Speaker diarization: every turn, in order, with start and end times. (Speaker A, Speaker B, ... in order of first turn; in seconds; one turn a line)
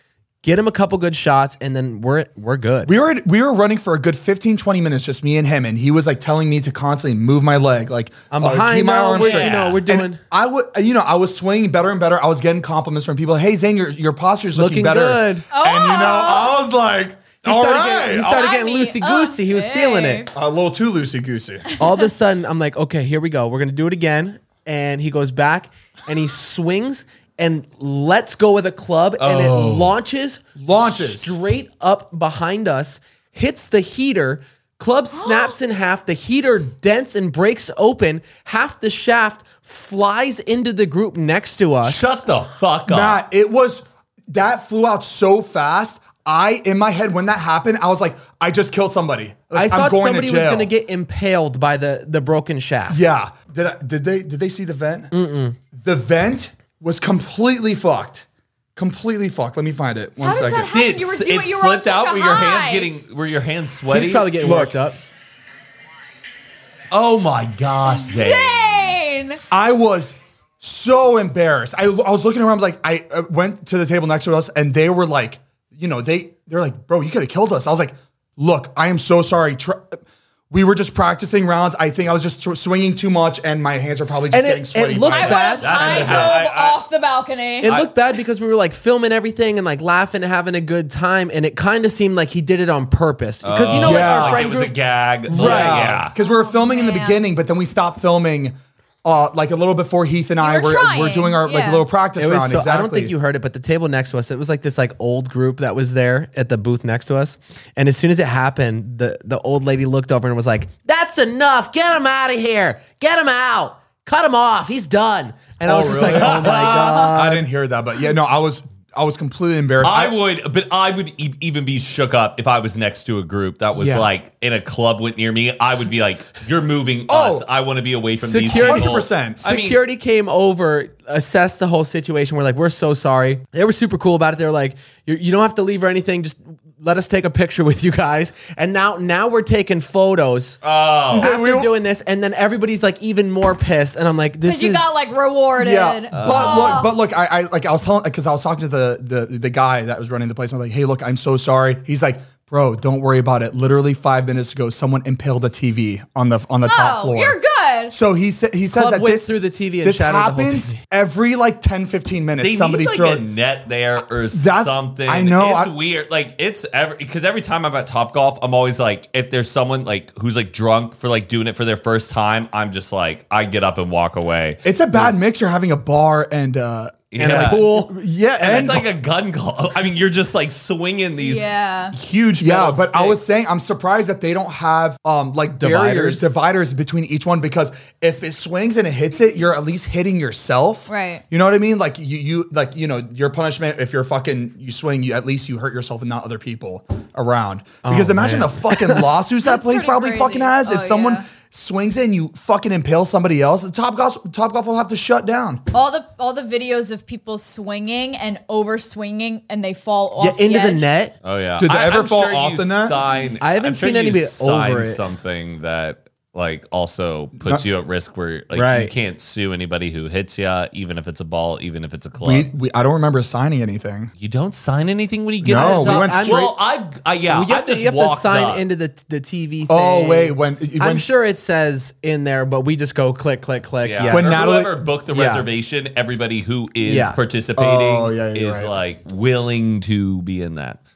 Speaker A: 0.4-2.9
Speaker B: 2.9-18.5
Speaker A: 8.3-10.2
Speaker C: 9.1-9.8
Speaker A: 14.6-15.5
Speaker D: 15.5-16.6
Speaker A: 17.4-20.3
Speaker D: 18.2-20.3
Speaker B: 20.3-21.7
Speaker A: 21.8-42.2
Speaker C: 29.2-29.6
Speaker B: 29.3-29.9
Speaker B: 30.6-31.4
Speaker D: 35.2-35.6
Speaker C: 41.8-43.2
Speaker B: 42.9-50.7
Speaker A: 49.5-53.0
Speaker B: 52.9-55.1
Speaker A: 55.1-55.6
Speaker B: 55.7-58.2
Speaker B: 58.8-60.7
Speaker D: 60.2-62.9
Speaker C: 60.7-64.4
Speaker A: 63.9-65.0
Speaker B: 64.4-64.8
Speaker C: 66.9-68.9
Speaker D: 67.9-69.4
Speaker B: 69.5-86.4
Speaker A: 84.3-86.3
Speaker D: 85.1-87.7
Speaker C: 85.6-86.8
Speaker A: 87.6-94.8
Speaker C: 87.6-87.9
Speaker C: 93.4-96.1
Speaker B: 93.7-94.5
Speaker A: 95.3-95.9
Speaker B: 95.3-103.1
Speaker D: 96.2-97.2
Speaker D: 100.4-101.8
Speaker A: 102.2-117.5
Speaker B: 115.6-120.2
Speaker C: 116.0-117.1
Speaker C: 119.8-129.8
Speaker B: 127.1-127.5
Speaker A: 128.2-140.6
Speaker B: 128.5-129.4
Speaker C: 140.6-141.3
Speaker B: 141.1-141.7
Speaker A: 141.1-144.9
Speaker D: 144.4-146.9
Speaker B: 145.6-157.4
Speaker C: 146.1-146.9
Speaker D: 156.6-157.9
Speaker B: 157.9-163.2
Speaker A: 158.7-160.8
Speaker C: 162.4-175.2
Speaker B: 164.3-165.7
Speaker B: 174.6-178.9
Speaker C: 177.1-177.7
Speaker A: 177.2-177.9
Speaker C: 178.4-183.2
Speaker D: 181.2-181.9
Speaker B: 182.4-205.6
Speaker A: 185.6-186.2
Speaker D: 190.9-191.2
Speaker A: 197.8-199.1
Speaker D: 199.4-201.2
Speaker D: 205.7-210.9
Speaker A: 210.2-211.2
Speaker C: 211.2-222.5
Speaker B: 211.6-213.0
Speaker A: 213.4-215.0
Speaker A: 218.5-218.9
Speaker B: 222.2-224.1
Speaker C: 224.2-228.6
Speaker B: 225.4-226.5
Speaker A: 225.5-226.5
Speaker A: 227.3-234.5
Speaker B: 229.7-231.1
Speaker C: 233.8-240.8
Speaker B: 234.1-234.8
Speaker A: 235.1-235.5
Speaker A: 236.8-237.2
Speaker B: 237.6-238.7